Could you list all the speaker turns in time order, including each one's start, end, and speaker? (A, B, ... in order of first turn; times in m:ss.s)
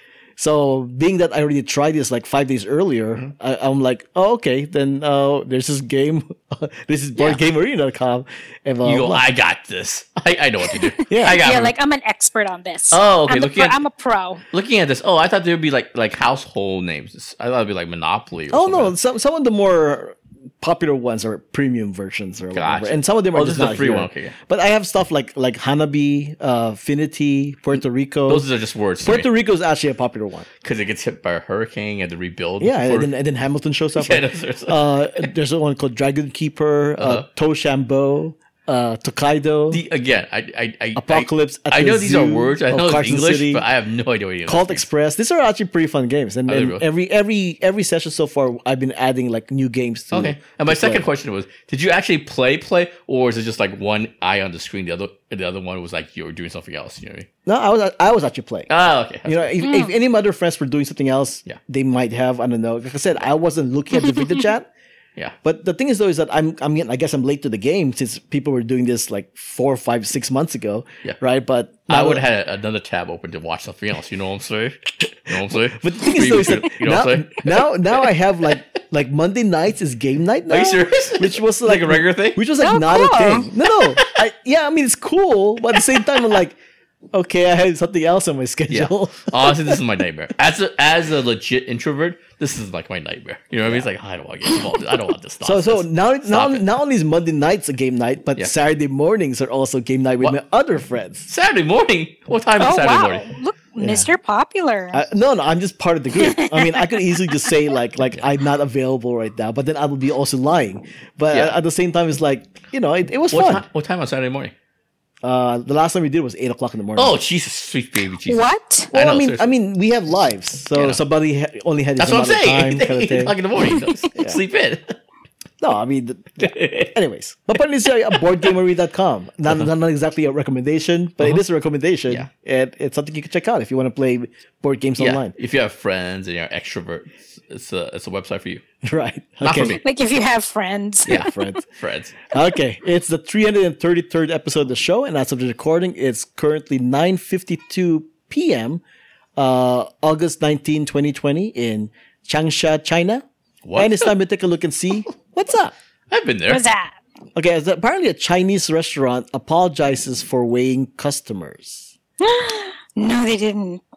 0:00.4-0:09.2 A
0:07.2-0:07.4 B
0:08.8-0:11.7 B
0:11.1-0:11.4 A
0:11.3-0:14.4 C
0:12.9-0:13.8 B
0:14.5-0:18.9 B
0:18.5-0:28.5 A
0:22.5-0:24.4 B
0:28.3-0:29.3 B
0:29.0-0:30.5 A
0:30.6-0:33.1 B
0:32.6-0:39.8 A
0:33.9-0:35.3 B
0:37.0-0:37.2 B
0:39.7-0:44.9 B
0:40.9-0:43.6 A
0:44.4-0:51.0 A
0:46.5-0:46.8 B
0:50.1-0:57.3 B
0:57.4-0:58.7 A
0:58.7-0:59.5 B
0:59.2-1:04.7 A
0:59.6-0:59.9 C
1:05.4-1:12.2 A
1:11.9-1:18.6 B
1:15.8-1:26.6 A
1:20.5-1:22.4 B
1:22.6-1:23.5 C
1:23.7-1:24.1 B
1:25.7-1:26.4 B
1:27.1-1:29.8 A
1:28.7-1:36.6 B
1:35.4-1:41.3 A
1:41.3-1:43.3 B
1:42.6-1:45.0 C
1:43.8-1:44.1 A
1:44.9-1:53.6 A
1:46.2-1:47.4 C
1:51.3-1:51.6 B
1:53.3-1:54.5 B
1:55.2-1:57.2 A
1:57.0-1:59.5 B
1:58.2-1:58.9 C
1:58.9-2:03.4 A
2:00.7-2:01.0 B
2:02.0-2:05.0 B
2:04.1-2:04.4 A
2:05.6-2:15.3 A
2:06.4-2:06.9 B
2:15.0-2:18.6 B
2:18.8-2:19.8 A
2:19.4-2:19.8 B
2:19.8-2:21.3 C
2:21.0-2:21.6 A
2:21.0-2:22.2 B
2:22.3-2:28.8 A
2:29.4-2:33.2 A
2:33.6-2:34.1 B
2:33.8-2:35.7 A
2:36.1-2:36.6 B
2:36.5-2:37.0 C
2:37.4-2:41.9 A
2:42.2-2:43.8 C